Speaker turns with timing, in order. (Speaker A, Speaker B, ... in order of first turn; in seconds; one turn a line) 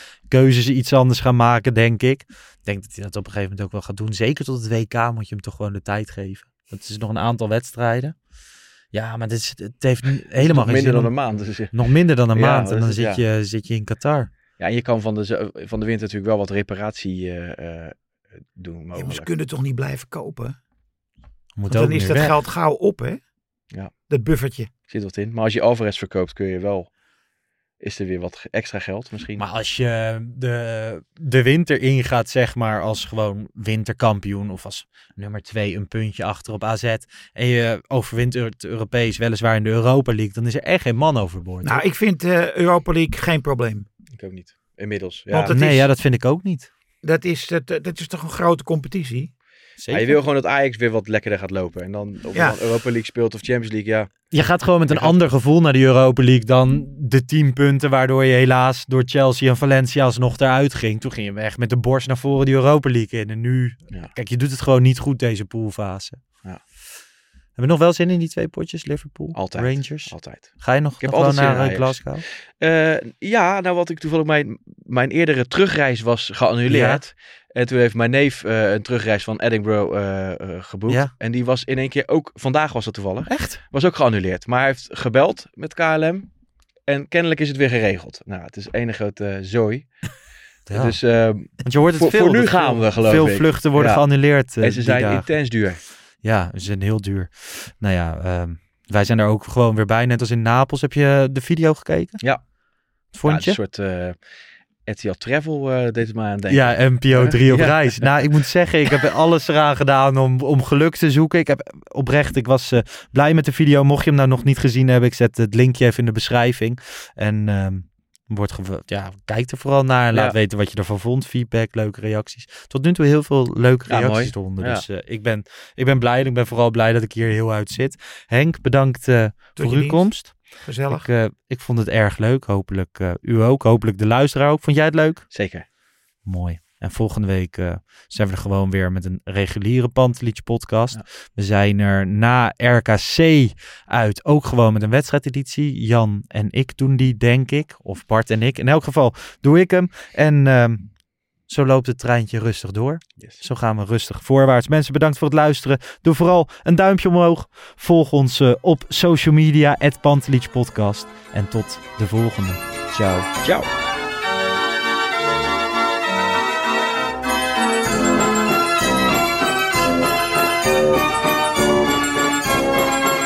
Speaker A: 0.3-8.1
Speaker A: 8.9-11.1
Speaker B: 10.4-11.7
Speaker A: 11.7-14.3
Speaker B: 12.3-13.2
Speaker B: 14.6-19.3
Speaker C: 18.9-20.6
Speaker A: 21.6-22.3
Speaker C: 21.7-23.2
Speaker C: 24.1-24.7
Speaker B: 24.9-26.9
Speaker B: 27.8-29.4
Speaker A: 29.4-41.8
Speaker C: 41.6-43.9
Speaker B: 44.1-45.5
Speaker C: 45.3-45.9
Speaker A: 45.5-46.7
Speaker C: 47.0-49.3
Speaker A: 49.8-50.2
Speaker B: 49.9-54.2
Speaker C: 52.3-52.6
Speaker A: 54.3-66.2
Speaker B: 54.9-55.2
Speaker A: 67.6-72.2
Speaker B: 69.3-70.5
Speaker B: 71.0-72.1
Speaker B: 72.6-86.3
Speaker A: 76.7-77.0
Speaker A: 80.9-81.1
Speaker A: 83.3-83.6
Speaker B: 86.9-89.9
Speaker A: 90.7-91.0
Speaker B: 90.7-94.0
Speaker A: 91.6-95.3
Speaker B: 94.6-95.8
Speaker A: 96.2-102.2
Speaker A: 103.1-103.6
Speaker B: 103.2-104.2
Speaker B: 104.8-108.1
Speaker A: 106.5-130.4
Speaker B: 123.9-124.8
Speaker C: 129.6-131.1
Speaker A: 130.9-135.3
Speaker B: 135.3-135.6
Speaker A: 136.2-150.9
Speaker A: 151.5-163.3
Speaker B: 153.2-153.4
Speaker B: 163.4-163.7